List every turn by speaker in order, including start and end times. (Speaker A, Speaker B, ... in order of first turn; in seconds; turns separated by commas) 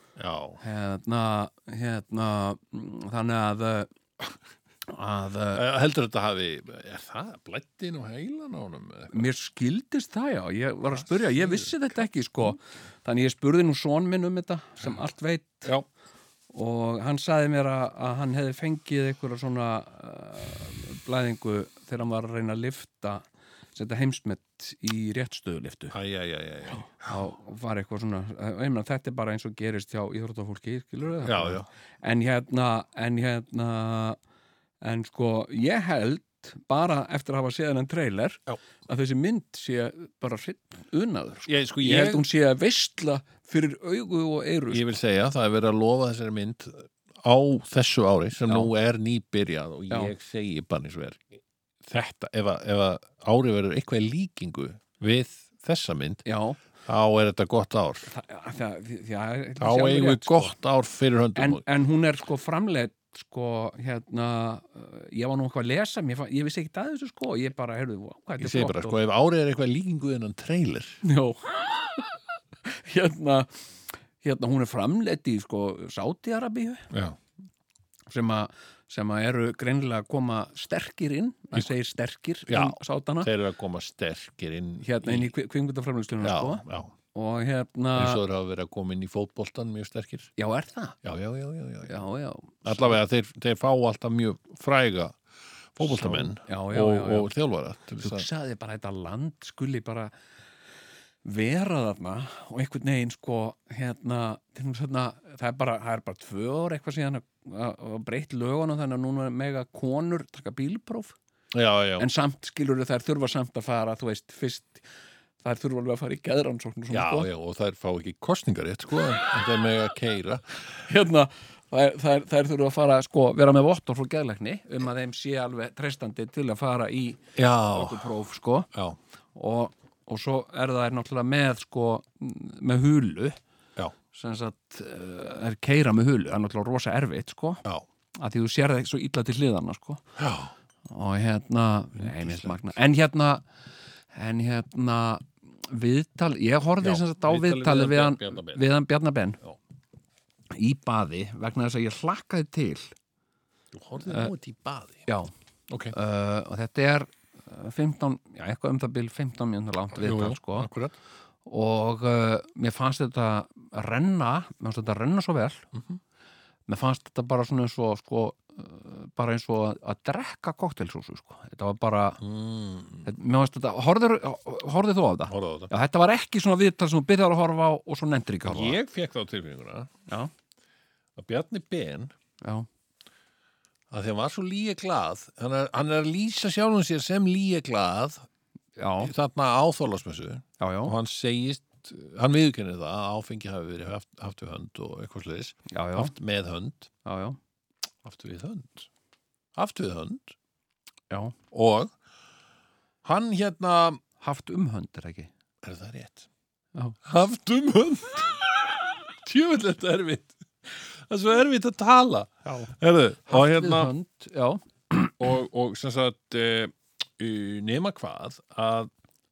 Speaker A: 0.1-0.6, Speaker B: 0.6-3.9, Speaker B: 4.9-5.6, Speaker A: 5.5-9.3, Speaker B: 9.1-15.7, Speaker A: 10.9-11.7, Speaker B: 16.5-26.0, Speaker A: 25.9-27.2, Speaker B: 27.0-34.2, Speaker A: 31.2-31.7, Speaker B: 34.8-44.9, Speaker A: 41.5-42.2, Speaker A: 44.7-56.3, Speaker B: 56.3-56.6, Speaker A: 56.9-58.1, Speaker B: 58.1-60.5, Speaker A: 59.6-61.6, Speaker B: 61.4-69.0, Speaker A: 68.4-71.0, Speaker B: 71.0-73.6, Speaker B: 74.2-76.9, Speaker A: 76.9-77.2, Speaker B: 78.1-83.3, Speaker A: 82.5-85.3, Speaker B: 84.8-88.2, Speaker A: 86.2-86.9, Speaker A: 88.0-90.3, Speaker B: 90.4-91.0, Speaker A: 91.0-92.0, Speaker B: 91.8-93.0, Speaker A: 92.6-95.2, Speaker A: 95.8-98.3, Speaker B: 95.8-97.3, Speaker B: 98.0-100.1, Speaker B: 101.2-111.2, Speaker A: 111.5-112.1, Speaker B: 112.0-114.8, Speaker B: 115.4-117.3, Speaker A: 116.9-120.6, Speaker B: 120.7-128.7, Speaker A: 127.3-128.1, Speaker A: 128.7-129.0, Speaker B: 129.3-133.4, Speaker B: 134.1-137.6, Speaker B: 138.2-140.1, Speaker A: 140.2-140.5, Speaker B: 140.9-143.4, Speaker A: 142.0-142.7, Speaker B: 144.1-149.4, Speaker A: 146.8-148.6, Speaker B: 150.5-152.9, Speaker A: 153.7-155.0, Speaker B: 154.1-154.3, Speaker B: 155.1-155.3, Speaker A: 155.7-156.0, Speaker B: 155.9-160.7, Speaker A: 160.0-160.9, Speaker B: 161.5-165.6, Speaker A: 165.7-166.0, Speaker B: 166.7-172.2, Speaker A: 172.2-173.1, Speaker B: 173.1-178.8, Speaker A: 175.3-175.7, Speaker A: 178.4-179.9, Speaker A: 181.2-182.1, Speaker B: 182.4-182.7, Speaker A: 183.9-188.3, Speaker B: 188.8-189.1, Speaker A: 189.0-196.9, Speaker B: 190.6-190.9, Speaker B: 195.7-196.1, Speaker B: 197.1-197.4, Speaker A: 198.0-198.9, Speaker A: 199.6-200.3, Speaker B: 201.1-201.3, Speaker A: 201.5-201.9, Speaker A: 203.0-204.0, Speaker B: 204.2-205.3, Speaker A: 205.6-206.3, Speaker A: 207.0-213.9, Speaker B: 213.3-215.1, Speaker A: 215.2-218.9